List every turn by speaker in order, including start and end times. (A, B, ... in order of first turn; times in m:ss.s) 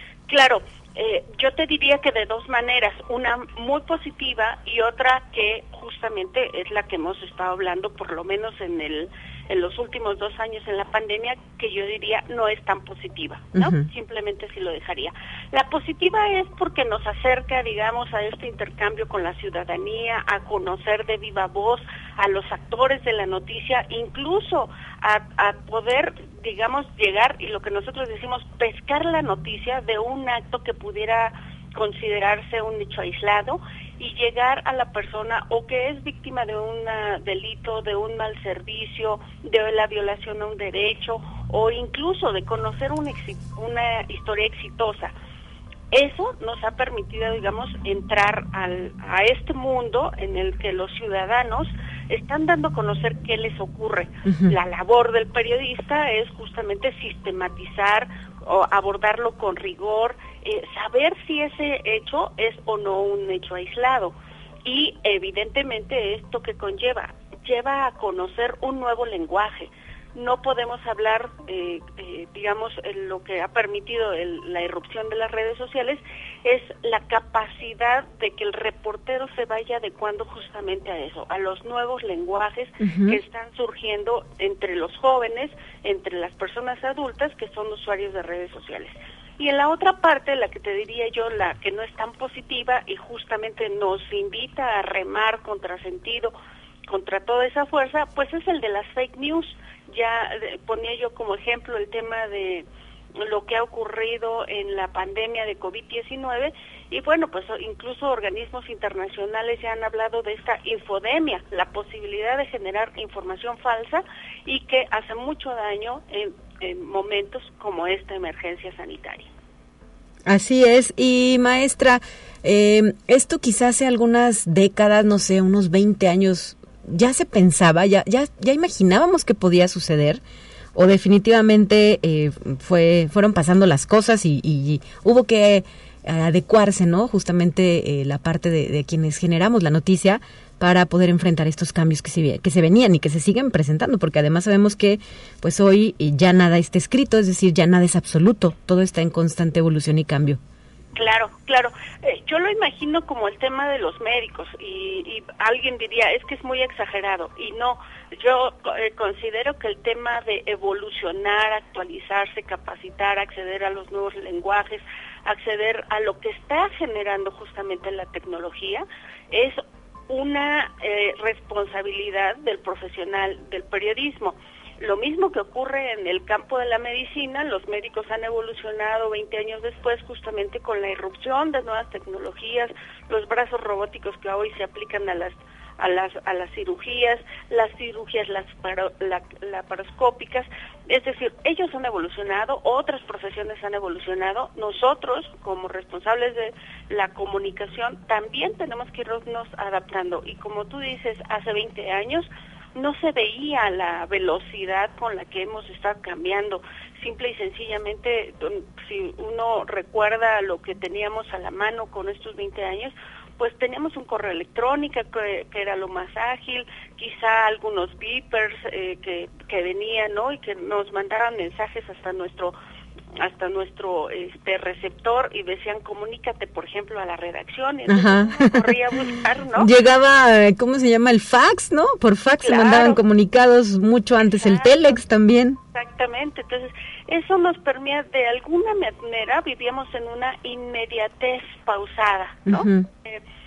0:00.3-0:45.1 A
0:13.6-0:13.8 B
0:45.9-1:04.1 A
0:54.3-0:54.5 B
1:04.6-1:36.3 A
1:22.8-1:23.2 B
1:36.9-1:42.7 A
1:43.2-1:59.3 A
2:00.3-2:10.2 B
2:10.8-2:30.4 B
2:31.0-3:42.6 A
3:43.2-3:49.7 A
3:47.9-3:48.7 B
3:49.6-3:55.6 B
3:52.4-3:53.0 A
3:54.2-3:55.0 A
3:55.7-4:03.2 A
4:02.5-4:02.9 B